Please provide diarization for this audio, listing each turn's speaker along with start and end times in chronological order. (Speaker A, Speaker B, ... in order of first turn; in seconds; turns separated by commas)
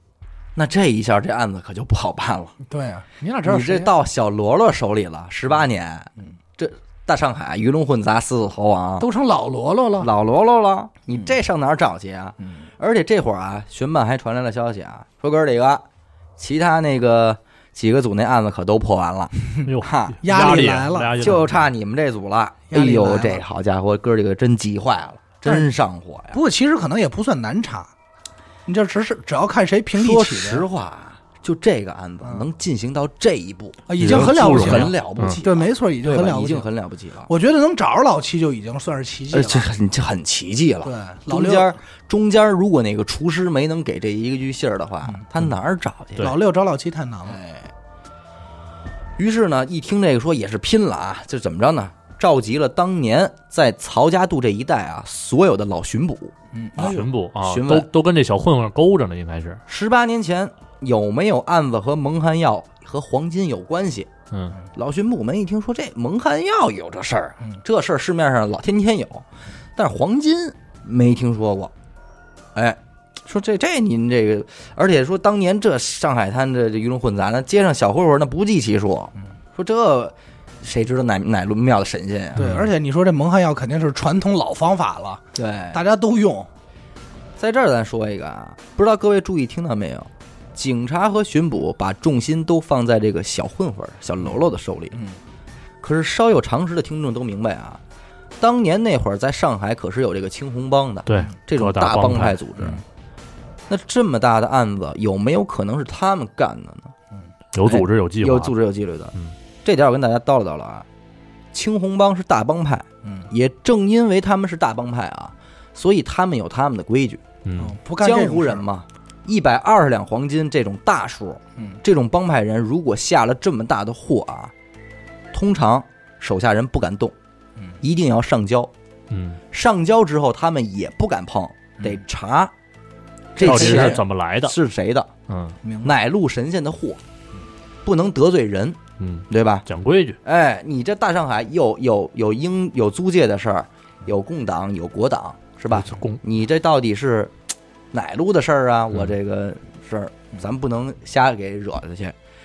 Speaker A: 0.6-2.5, Speaker B: 2.6-3.9, Speaker A: 3.5-9.1, Speaker B: 9.0-10.1, Speaker A: 10.0-15.8, Speaker A: 16.4-26.4, Speaker C: 19.6-21.6, Speaker B: 20.2-21.3, Speaker B: 22.7-23.4, Speaker B: 26.3-27.9, Speaker B: 28.7-30.7, Speaker A: 29.9-37.3, Speaker B: 32.2-32.5, Speaker B: 33.9-36.7, Speaker C: 34.0-35.4, Speaker B: 37.3-39.7, Speaker A: 39.3-46.3, Speaker B: 40.8-41.8, Speaker B: 46.2-47.4, Speaker A: 47.3-47.7, Speaker A: 49.2-57.9, Speaker B: 56.5-57.1, Speaker C: 56.8-59.6, Speaker A: 59.7-64.1, Speaker C: 64.3-64.6, Speaker A: 64.7-71.7, Speaker A: 72.5-82.5, Speaker B: 82.4-86.5, Speaker C: 82.4-82.7, Speaker A: 85.3-85.8, Speaker A: 87.4-95.0, Speaker A: 95.8-97.8, Speaker A: 98.4-102.8, Speaker C: 101.1-102.4, Speaker A: 103.7-106.9, Speaker C: 107.5-108.5, Speaker A: 107.7-109.1, Speaker A: 109.7-110.9, Speaker A: 111.5-117.2, Speaker B: 113.0-113.3, Speaker C: 117.5-117.8, Speaker B: 117.6-118.7, Speaker A: 118.0-124.5, Speaker A: 125.3-127.2, Speaker A: 127.8-128.7, Speaker C: 129.1-129.4, Speaker A: 129.5-132.5, Speaker B: 133.3-134.0, Speaker A: 133.4-135.1, Speaker C: 133.4-134.6, Speaker C: 135.3-135.6, Speaker B: 135.6-135.9, Speaker A: 135.8-137.0, Speaker A: 137.8-139.7, Speaker C: 139.0-140.2, Speaker A: 140.2-147.3, Speaker C: 145.7-146.2, Speaker A: 147.9-152.2